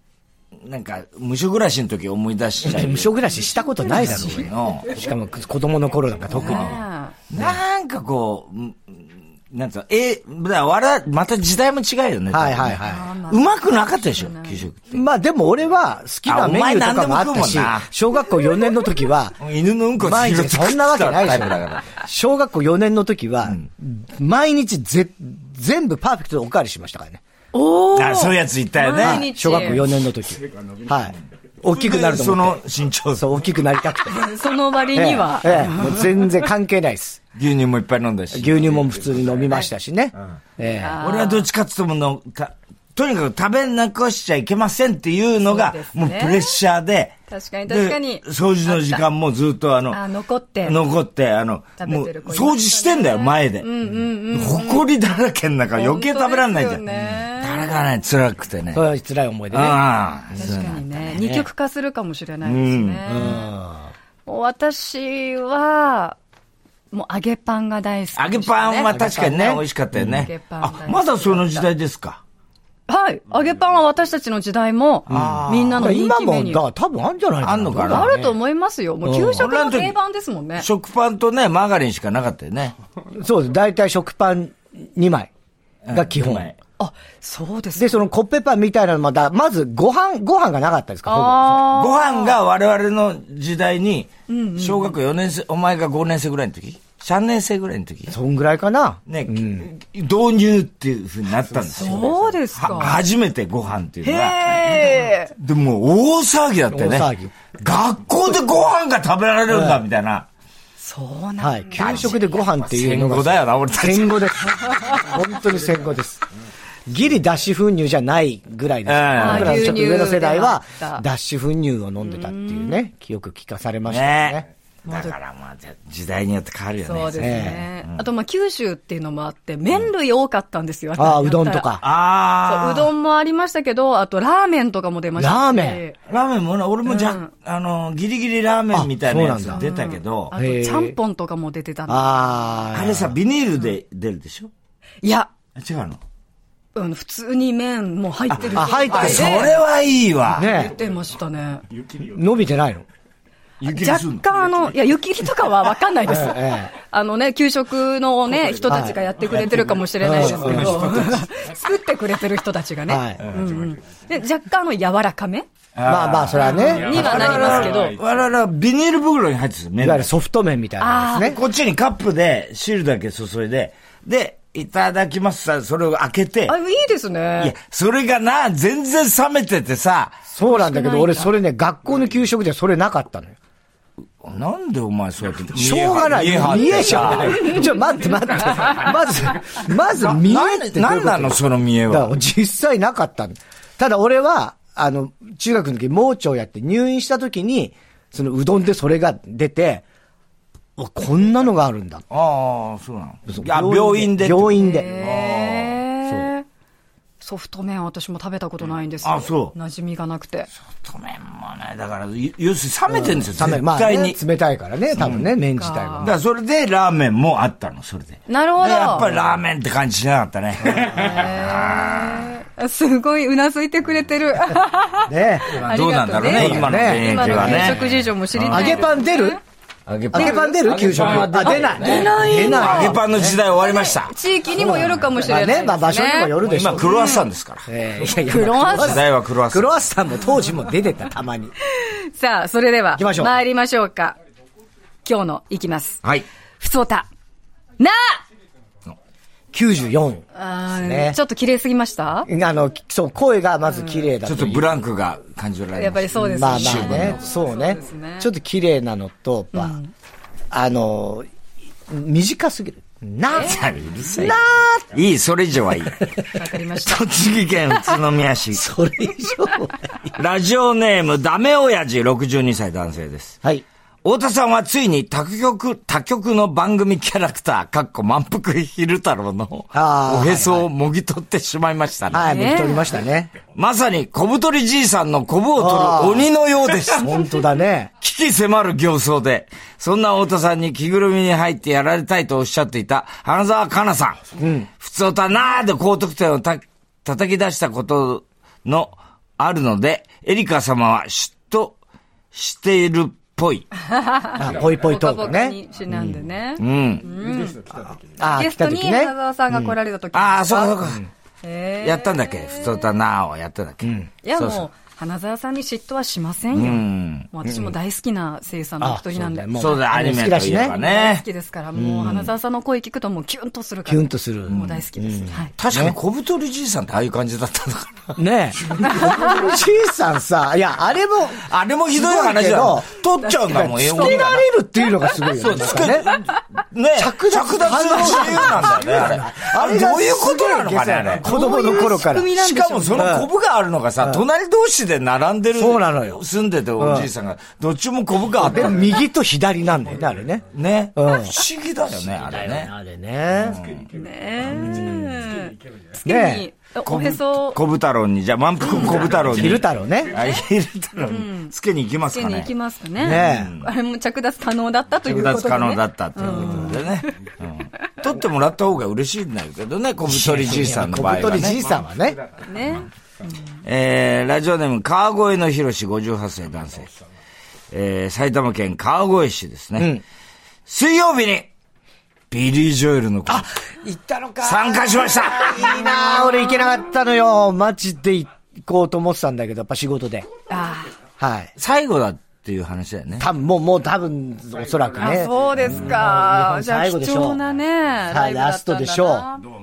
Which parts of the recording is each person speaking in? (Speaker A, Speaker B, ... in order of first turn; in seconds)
Speaker A: 0.6-3.1, 3.9-5.0, 6.3-6.8, 7.3-15.0, 16.3-17.9, 19.4-22.0, 27.9-29.7, 31.7-33.3, 37.3-39.4, 41.0-47.1, 47.7-50.0, 50.6-53.7, 54.3-56.9, 57.4-58.8, 59.5-61.4, 62.4-63.0, 68.2-72.2, 75.1-75.9, 77.4-78.2, 79.3-80.0, 80.6-82.8, 85.8-86.5, 91.5-98.1, 99.1-110.3, 111.8-114.8, 118.9-119.8, 123.9-128.0, 131.8-132.9, 136.1-140.3, 142.7-144.5, 145.6-146.0, 148.3-150.5, 153.6-154.3, 159.3-161.2, 165.7-170.1, 171.2-176.6, 177.4-180.2, 184.2-187.6, 189.9-192.2, 202.1-205.8, 209.0-209.6, 210.7-214.2, 214.9-215.3, 216.0-222.3, 225.5-227.8, 228.3-228.9, 229.9-234.2, 236.4-237.7, 238.6-239.7, 254.2-257.2, 263.3-266.2, 266.8-268.6, 270.2-273.4, 274.0-282.4, 283.5-287.2, 288.0-294.2, 294.8-301.8, 302.3-303.7, 306.6-307.1, 309.5-311.0, 311.8-314.6, 316.5-317.3, 319.6-321.2, 324.5-324.8, 325.6-328.1, 331.4-334.5, 335.3-341.3, 342.3-349.0, 350.5-352.7, 353.4-353.9, 356.8-362.5, 363.1-363.7, 365.0-371.6, 373.6-376.9, 377.7-380.0, 380.7-381.5, 382.3-383.5, 384.4-385.8, 391.6-393.3
Speaker B: 2.6-6.8, 12.3-13.1, 14.9-19.4, 20.0-27.2, 29.0-32.6, 33.1-34.3, 34.9-37.2, 38.3-41.0, 58.7-60.6, 63.1-63.9, 68.9-70.2, 75.1-78.4, 79.0-79.5, 83.1-85.3, 85.9-86.5, 87.8-91.6, 98.1-99.7, 106.7-107.3, 109.5-109.8, 111.4-116.2, 116.9-124.4, 127.2-127.7, 131.0-131.8, 135.2-135.8, 138.7-139.6, 140.3-140.9, 141.9-143.1, 148.4-149.4, 150.3-150.7, 152.0-152.8, 156.0-156.7, 158.7-159.0, 160.0-160.9, 162.9-163.2, 165.8-167.7, 169.8-171.4, 180.3-183.4, 185.5-199.8, 200.8-202.0, 203.3-204.9, 212.9-216.1, 225.1-225.6, 226.3-229.4, 230.1-233.4, 234.5-237.0, 237.7-241.5, 242.9-243.3, 249.5-251.2, 252.3-254.8, 256.2-259.8, 260.5-261.3, 261.9-263.6, 264.1-264.8, 268.5-270.2, 279.7-280.6, 282.1-283.3, 285.6-286.3, 287.0-287.9, 294.4-294.7, 304.4-306.0, 308.0-309.1, 313.8-314.1, 317.4-317.7, 318.8-320.7, 321.7-322.3, 323.9-326.0, 328.1-336.1, 336.9-342.3, 342.9-343.3, 345.5-346.2, 346.8-347.1, 348.4-351.4, 352.3-353.6, 354.4-355.3, 356.0-356.5, 359.1-360.2, 363.0-363.5, 366.3-366.6, 370.1-372.2, 379.8-380.0, 383.3-390.3, 391.2-391.5, 393.2-397.4, 398.1-399.3
Speaker C: 3.8-4.5, 6.3-7.2, 12.8-14.7, 27.5-29.8, 34.1-36.5, 40.8-41.5, 45.4-46.5, 47.3-49.0, 49.9-50.8, 51.8-54.8, 55.7-57.8, 60.3-63.5, 64.2-66.2, 66.9-68.9, 70.1-71.7, 72.9-76.6, 77.8-80.7, 86.8-88.0, 91.1-92.4, 94.3-95.0, 101.8-103.0, 104.0-105.3, 110.8-112.1, 119.2-121.0, 122.0-122.8, 124.8-125.2, 126.8-131.8, 132.4-136.0, 136.8-137.3, 139.5-142.3, 145.0-145.3, 146.7-149.6, 150.4-151.6, 153.7-165.5, 166.4-168.0, 170.8-171.3, 176.5-177.5, 180.4-181.3, 187.2-187.6, 204.5-206.4, 207.2-210.5, 215.6-216.1, 218.3-219.1, 220.8-229.4, 230.1-230.4, 231.4-233.0, 233.6-237.2, 238.2-239.0, 241.8-244.2, 245.0-246.0, 246.6-247.1, 247.8-248.2, 250.3-252.3, 253.6-254.1, 255.8-258.3, 259.5-259.9, 263.3-263.6, 266.3-267.1, 282.2-282.9, 303.9-307.6, 308.3-310.8, 311.4-312.9, 314.2-319.8, 320.6-325.5, 328.9-329.3, 334.0-334.4, 341.2-343.1, 353.9-357.6, 360.9-361.5, 362.1-367.1, 372.4-373.4, 390.5-390.9, 395.0-399.4